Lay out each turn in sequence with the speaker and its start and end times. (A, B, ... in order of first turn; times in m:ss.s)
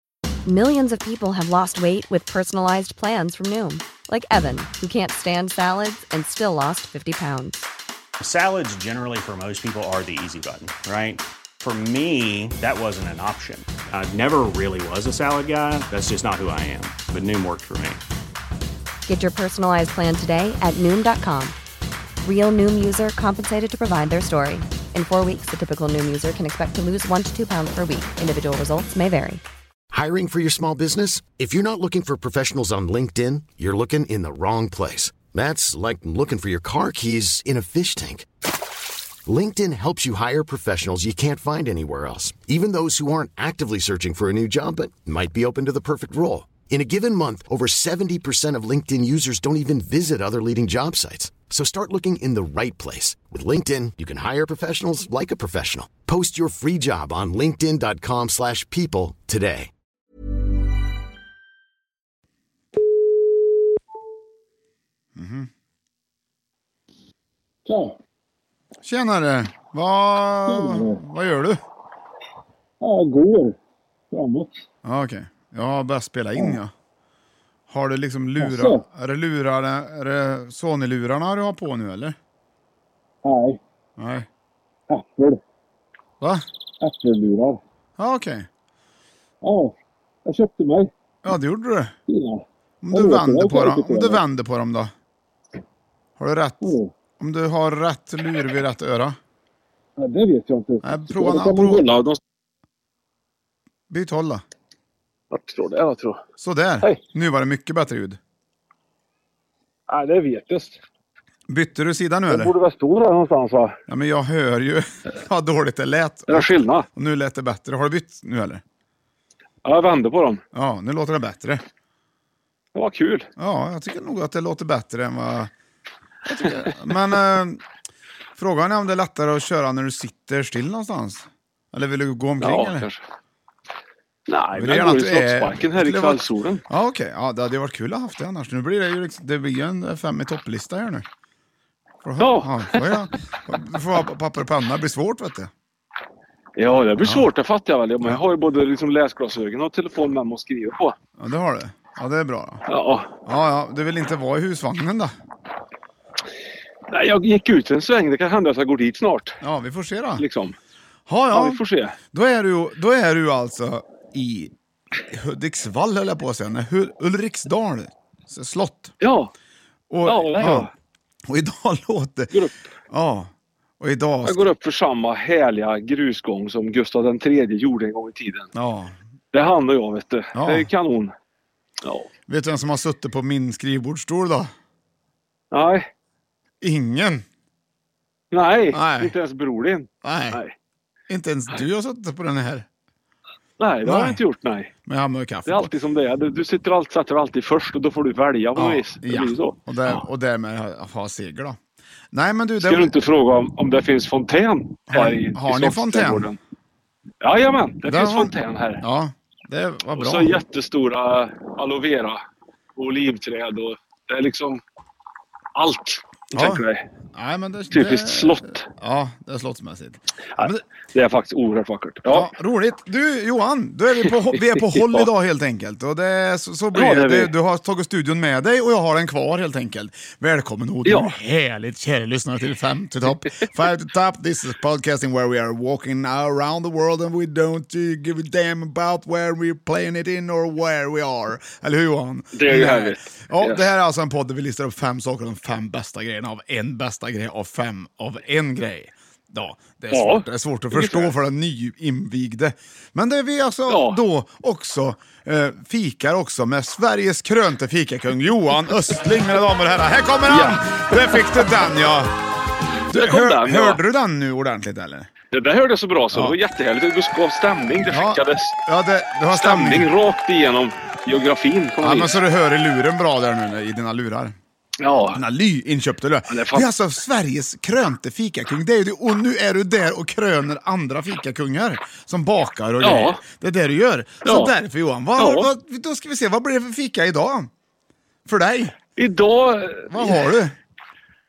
0:00.5-0:07.6 A
0:08.2-0:18.0 B
0:19.1-0:21.6 A
0:22.2-0:29.4 A
0:29.9-0:38.3 C
0:39.3-0:59.7 C
1:05.2-1:05.5 D
1:07.7-1:08.0 E
1:08.8-1:11.6 D
1:10.5-1:11.0 E
1:12.8-1:13.6 E
1:14.1-1:14.6 E
1:14.8-1:16.7 D
1:17.7-1:22.2 D
1:18.4-1:18.8 E
1:23.2-1:23.6 E
1:24.0-1:24.3 D
1:24.9-1:25.4 E
1:26.2-1:26.4 D
1:26.8-1:27.6 E
1:28.0-1:28.5 D
1:29.4-1:30.9 E
1:31.2-1:32.0 D
1:32.1-1:34.2 E
1:32.8-1:34.9 D
1:36.2-1:39.2 D
1:36.6-1:36.9 E
1:40.0-1:42.2 E
1:40.8-1:41.9 D
1:43.9-1:44.4 D
1:45.3-1:46.2 E
1:46.4-1:48.2 D
1:49.9-1:50.8 E
1:51.5-1:52.5 D
1:52.3-1:53.8 E
1:53.9-1:58.6 D
1:56.3-1:56.9 E
1:59.6-2:00.4 E
2:00.5-2:01.6 D
2:02.8-2:03.3 E
2:03.4-2:05.5 D
2:06.3-2:07.6 D
2:08.4-2:12.9 D
2:12.4-2:13.0 E
2:14.3-2:16.6 E
2:14.6-2:21.1 D
2:22.0-2:25.5 D
2:22.2-2:23.0 E
2:26.6-2:31.0 E
2:27.0-2:27.3 D
2:31.2-2:32.6 D
2:32.7-2:33.1 E
2:33.3-2:35.1 D
2:36.9-2:39.4 E
2:39.4-2:40.2 D
2:40.2-2:40.6 E
2:41.1-2:44.5 D
2:41.3-2:42.0 E
2:45.1-2:48.9 D
2:49.0-2:49.3 E
2:49.9-2:50.7 D
2:50.0-2:50.7 E
2:51.3-2:52.3 D
2:52.9-2:54.4 D
2:54.2-2:58.5 E
2:58.6-2:59.0 D
2:59.3-3:01.1 E
3:00.4-3:00.7 D
3:01.8-3:02.1 E
3:02.3-3:04.5 D
3:05.5-3:05.9 E
3:06.6-3:07.2 D
3:08.3-3:10.5 E
3:08.7-3:09.1 D
3:10.0-3:10.4 D
3:11.1-3:12.7 D
3:13.6-3:14.7 E
3:13.8-3:14.2 D
3:14.9-3:15.7 D
3:15.5-3:20.0 E
3:18.6-3:21.6 D
3:22.1-3:22.9 D
3:22.6-3:26.4 E
3:24.9-3:26.3 D
3:27.2-3:28.8 E
3:27.9-3:30.4 D
3:29.9-3:32.2 E
3:32.8-3:34.6 E
3:35.6-3:36.8 E
3:36.3-3:36.6 D
3:37.1-3:40.6 D
3:37.7-3:38.7 E
3:40.4-3:42.3 E
3:42.1-4:22.1 D
3:44.5-3:45.1 E
3:46.7-3:47.3 E
3:50.9-3:51.2 E
4:02.3-4:03.7 E
4:09.9-4:11.1 E
4:13.7-4:14.0 E
4:20.3-4:21.4 E
4:22.9-4:23.8 E
4:22.9-4:25.1 D
4:25.3-4:28.6 E
4:27.9-4:29.9 D
4:29.3-4:32.2 E
4:31.8-4:34.4 D
4:34.8-4:35.2 E
4:35.1-4:47.5 D
4:36.3-4:36.7 E
4:42.8-4:43.2 E
4:44.2-4:44.5 E
4:45.2-4:45.5 E
4:48.3-4:48.8 D
4:49.0-4:50.2 E
4:49.9-4:50.6 D